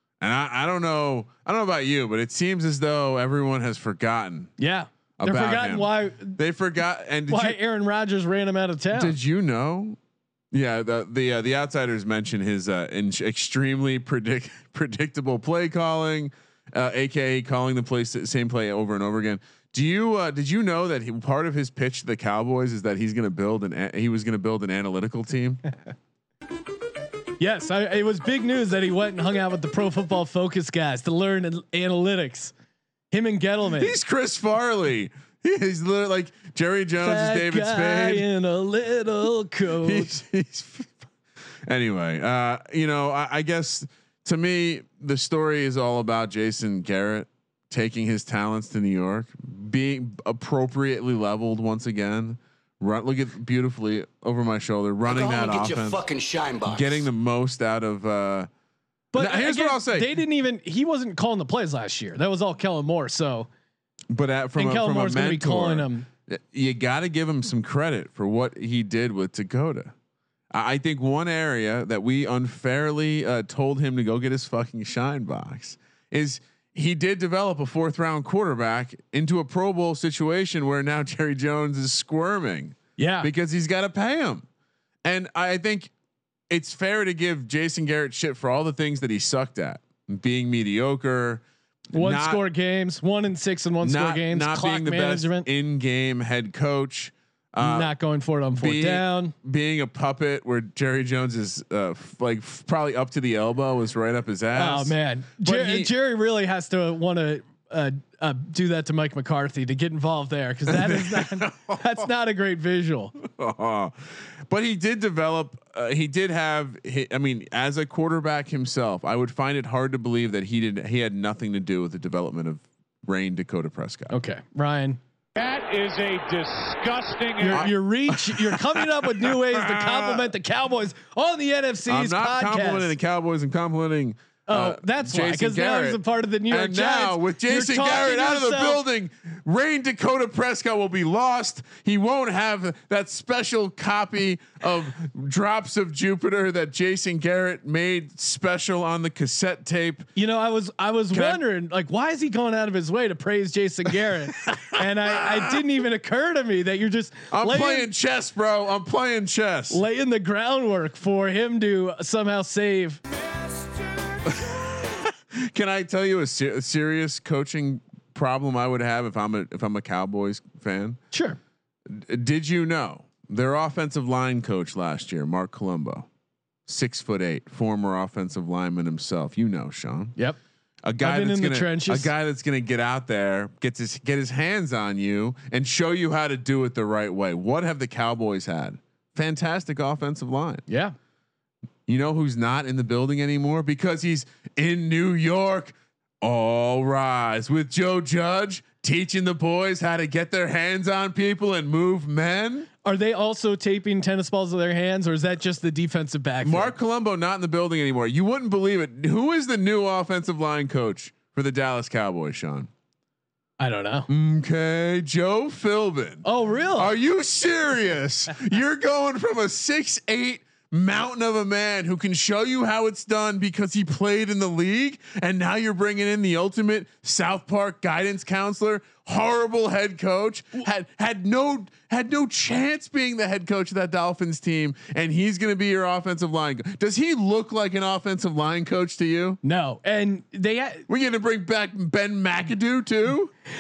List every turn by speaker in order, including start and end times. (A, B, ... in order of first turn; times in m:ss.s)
0:00.2-0:04.5 A
0:04.6-0:06.4 B
0:05.2-0:07.6 A
0:07.3-0:09.1 B
0:08.9-0:10.0 A
0:10.5-0:25.6 A
0:27.4-0:32.5 B
0:33.1-0:34.0 B
0:33.8-0:38.3 A
0:37.0-0:40.1 B
0:39.8-0:41.1 A
0:41.7-0:56.1 A
0:55.1-0:57.1 C
0:56.6-0:58.5 A
0:59.1-1:03.5 B
0:59.2-1:00.2 A
1:04.1-1:09.9 A
1:04.6-1:06.1 B
1:10.5-1:24.5 A
1:23.0-1:23.3 B
1:25.0-1:25.9 A
1:26.5-1:32.4 A
1:31.9-1:35.5 B
1:33.8-1:37.9 A
1:37.6-1:39.3 B
1:38.6-1:45.9 A
1:44.6-1:53.1 B
1:50.7-1:52.1 A
1:53.2-2:04.1 A
2:04.1-2:05.0 B
2:05.4-2:07.6 D
2:07.4-2:12.9 B
2:07.5-2:10.3 A
2:11.9-2:30.1 A
2:14.5-2:18.8 B
2:30.2-2:37.9 B
2:31.1-2:31.4 A
2:34.4-2:35.6 A
2:37.3-2:39.8 A
2:39.7-2:43.0 B
2:44.3-2:51.0 A
2:51.1-2:51.4 B
2:51.9-2:56.1 A
2:56.7-3:00.2 A
3:00.8-3:10.6 A
3:01.0-3:02.1 B
3:10.7-3:11.0 B
3:11.9-3:22.7 A
3:22.8-3:26.7 B
3:26.4-3:32.7 A
3:33.6-3:34.1 B
3:34.1-3:59.4 A
3:36.2-3:36.9 B
3:59.4-4:00.8 B
4:00.9-4:03.3 A